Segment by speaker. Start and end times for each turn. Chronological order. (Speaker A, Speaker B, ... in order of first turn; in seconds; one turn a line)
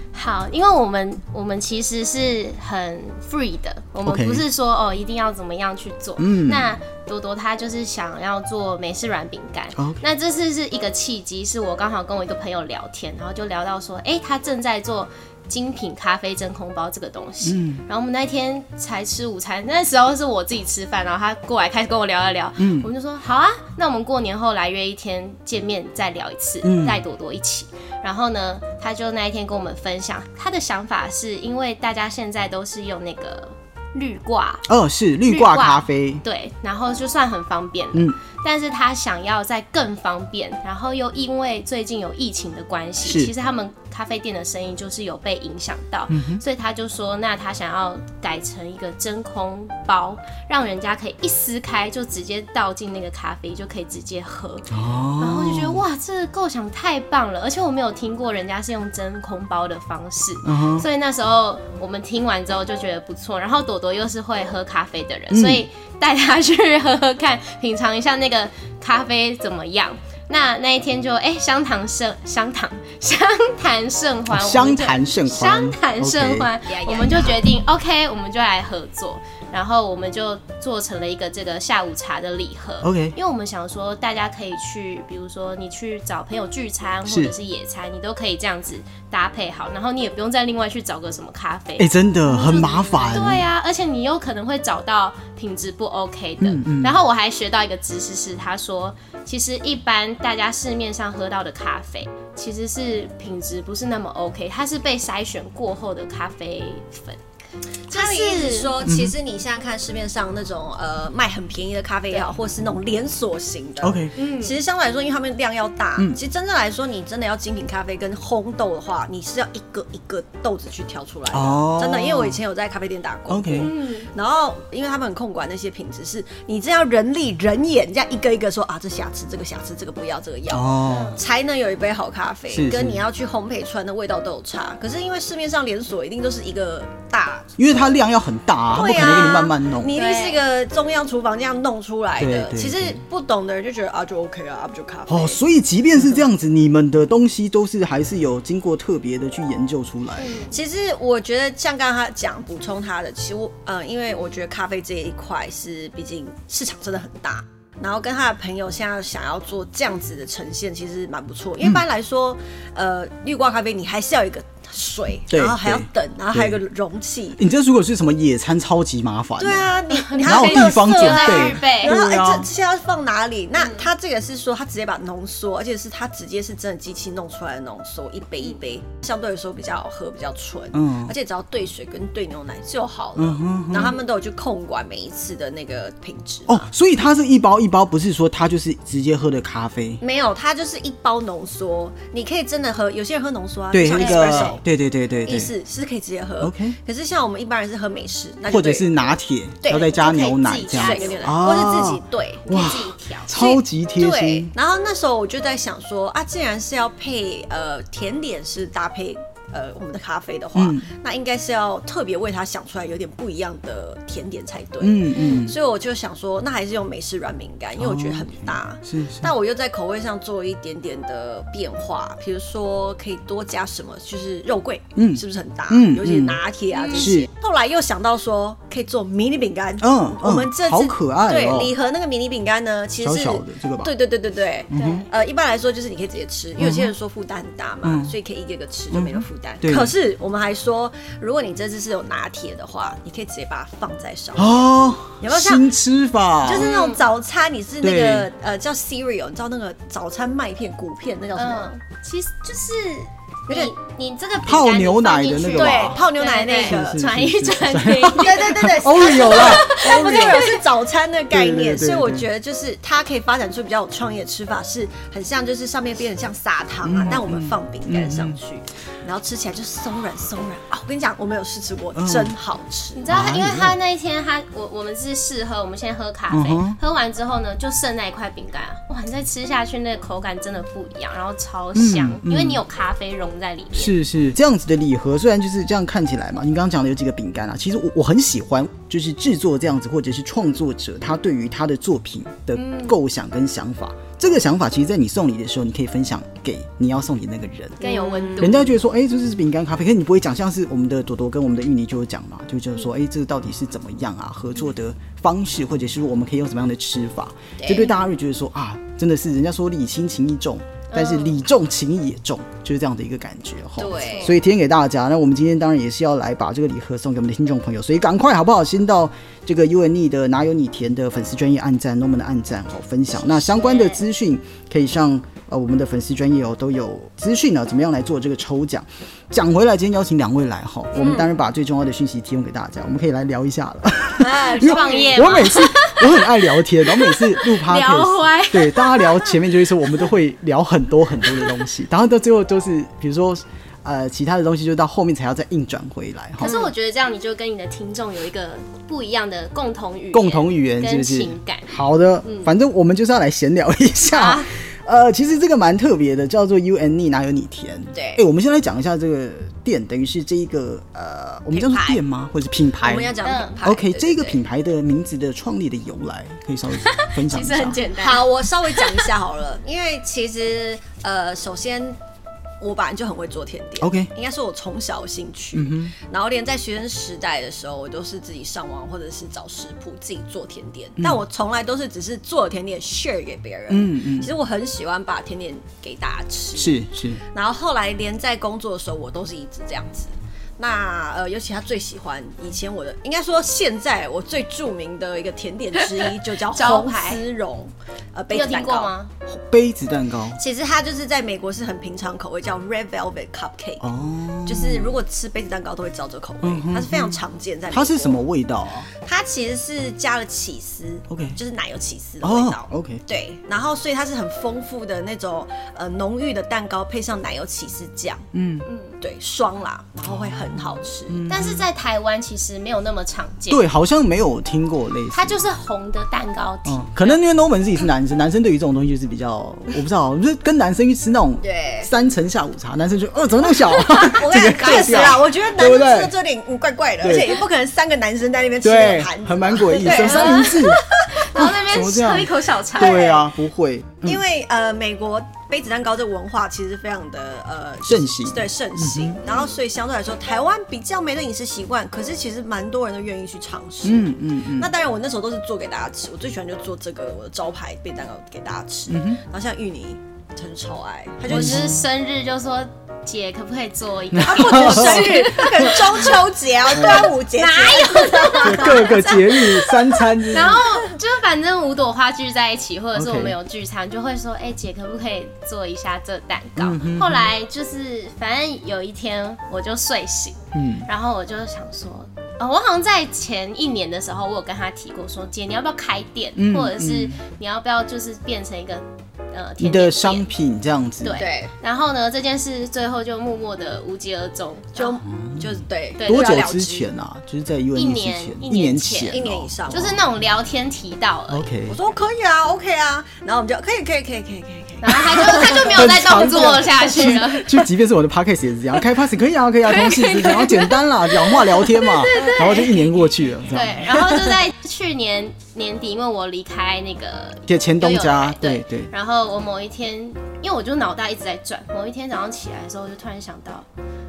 Speaker A: 0.1-34.7
Speaker B: 4.0-4.4
Speaker B: 6.2-6.7
Speaker B: 9.8-10.0
Speaker B: 17.4-17.8
Speaker B: 22.6-22.9
Speaker B: 26.6-27.0
Speaker B: 34.7-36.2
Speaker A: 35.3-54.7
Speaker B: 43.0-43.3
Speaker B: 46.1-46.4
Speaker B: 54.7-55.8
Speaker A: 55.2-107.2
Speaker B: 60.4-60.9
Speaker B: 65.3-65.6
Speaker B: 74.3-76.5
Speaker C: 76.6-77.4
Speaker B: 82.8-83.2
Speaker B: 87.1-87.3
Speaker B: 91.8-93.5
Speaker B: 96.4-97.0
Speaker A: 107.9-108.8
Speaker C: 107.9-137.6
Speaker B: 108.8-109.1
Speaker B: 113.8-114.1
Speaker A: 114.2-114.5
Speaker B: 121.3-122.4
Speaker B: 123.3-123.7
Speaker A: 123.6-124.1
Speaker B: 130.5-131.2
Speaker A: 130.9-131.2
Speaker B: 132.5-133.0
Speaker B: 137.6-139.9
Speaker C: 138.7-145.4
Speaker A: 139.9-140.4
Speaker B: 142.2-143.0
Speaker B: 145.1-150.3
Speaker A: 150.2-150.5
Speaker C: 150.5-167.4
Speaker B: 165.3-166.6
Speaker B: 167.4-172.5
Speaker C: 169.4-186.7
Speaker A: 170.0-171.9
Speaker A: 173.6-173.8
Speaker B: 180.7-181.1
Speaker B: 183.2-183.9
Speaker B: 186.5-190.0
Speaker C: 190.0-194.6
Speaker B: 193.7-195.5
Speaker A: 193.9-194.6
Speaker C: 195.2-198.9
Speaker B: 196.4-196.8
Speaker B: 198.5-204.5
Speaker C: 199.6-200.0
Speaker A: 199.7-201.3
Speaker C: 200.7-202.5
Speaker A: 202.5-203.4
Speaker C: 203.3-244.7
Speaker B: 210.6-210.9
Speaker B: 214.8-215.6
Speaker A: 215.2-215.4
Speaker B: 217.8-219.3
Speaker B: 225.0-226.4
Speaker A: 226.7-227.2
Speaker B: 227.0-227.3
Speaker B: 229.8-231.7
Speaker B: 233.0-233.9
Speaker B: 234.7-235.1
Speaker A: 234.7-235.1
Speaker B: 236.6-236.9
Speaker B: 237.8-238.1
Speaker B: 238.9-239.9
Speaker B: 244.4-246.7
Speaker C: 245.2-245.7
Speaker C: 246.4-251.7
Speaker A: 246.6-247.0
Speaker B: 247.8-248.3
Speaker A: 251.4-260.6
Speaker B: 254.4-256.0
Speaker C: 255.5-257.1
Speaker B: 256.6-260.5
Speaker C: 258.1-273.1
Speaker B: 261.3-262.3
Speaker B: 266.8-268.4
Speaker B: 272.0-272.3
Speaker A: 272.9-284.0
Speaker B: 273.1-273.8
Speaker B: 276.3-276.8
Speaker B: 281.8-282.6
Speaker B: 283.7-297.8
Speaker A: 292.6-293.0
Speaker C: 297.8-298.6
Speaker A: 297.8-298.7
Speaker B: 298.4-346.7
Speaker C: 307.6-307.9
Speaker A: 310.9-311.4
Speaker C: 313.8-314.3
Speaker A: 314.0-314.3
Speaker A: 323.3-324.0
Speaker C: 330.9-331.3
Speaker C: 334.2-335.5
Speaker A: 334.5-336.3
Speaker A: 336.8-339.5
Speaker A: 341.3-341.5
Speaker A: 346.4-352.5
Speaker B: 350.1-367.9
Speaker A: 354.1-354.5
Speaker C: 357.9-358.2
Speaker C: 361.5-362.0
Speaker C: 362.8-364.4
Speaker A: 363.2-363.6
Speaker A: 366.9-369.1
Speaker C: 367.9-372.0
Speaker C: 372.6-398.9
Speaker B: 373.8-374.1
Speaker B: 375.5-375.9
Speaker B: 383.7-384.3
Speaker B: 386.6-387.2
Speaker A: 396.0-397.2
Speaker A: 398.3-399.1
Speaker B: 399.3-400.4
Speaker C: 400.4-403.9
Speaker B: 403.8-405.0
Speaker C: 404.4-408.2
Speaker B: 406.4-408.9
Speaker C: 408.9-418.3
Speaker B: 411.1-411.4
Speaker B: 412.2-413.0
Speaker B: 418.3-418.7
Speaker A: 418.7-418.9
Speaker C: 419.0-421.2
Speaker B: 420.1-421.7
Speaker A: 421.3-423.6
Speaker B: 423.5-425.4
Speaker A: 425.1-427.2
Speaker B: 426.7-436.1
Speaker C: 431.4-431.9
Speaker C: 433.9-440.6
Speaker B: 437.0-437.4
Speaker B: 438.6-444.2
Speaker A: 439.8-443.2
Speaker C: 442.8-443.2
Speaker C: 444.0-461.8
Speaker B: 447.9-449.2
Speaker B: 453.9-454.7
Speaker B: 458.9-459.2
Speaker B: 461.3-461.8
Speaker A: 461.3-466.1
Speaker B: 464.1-465.9
Speaker C: 464.2-469.4
Speaker B: 466.7-467.1
Speaker A: 466.9-490.3
Speaker B: 468.4-470.6
Speaker B: 472.9-473.4
Speaker B: 476.6-477.3
Speaker B: 480.5-480.9
Speaker B: 486.4-487.2
Speaker B: 489.6-491.2
Speaker A: 491.0-495.0
Speaker C: 491.1-491.5
Speaker C: 494.8-496.9
Speaker B: 495.1-499.9
Speaker A: 496.0-496.5
Speaker A: 497.8-501.5
Speaker C: 499.1-500.0
Speaker B: 501.3-501.8
Speaker C: 501.7-506.6
Speaker A: 504.8-507.5
Speaker B: 505.3-514.0
Speaker A: 509.6-523.7
Speaker C: 512.1-512.4
Speaker B: 517.5-518.9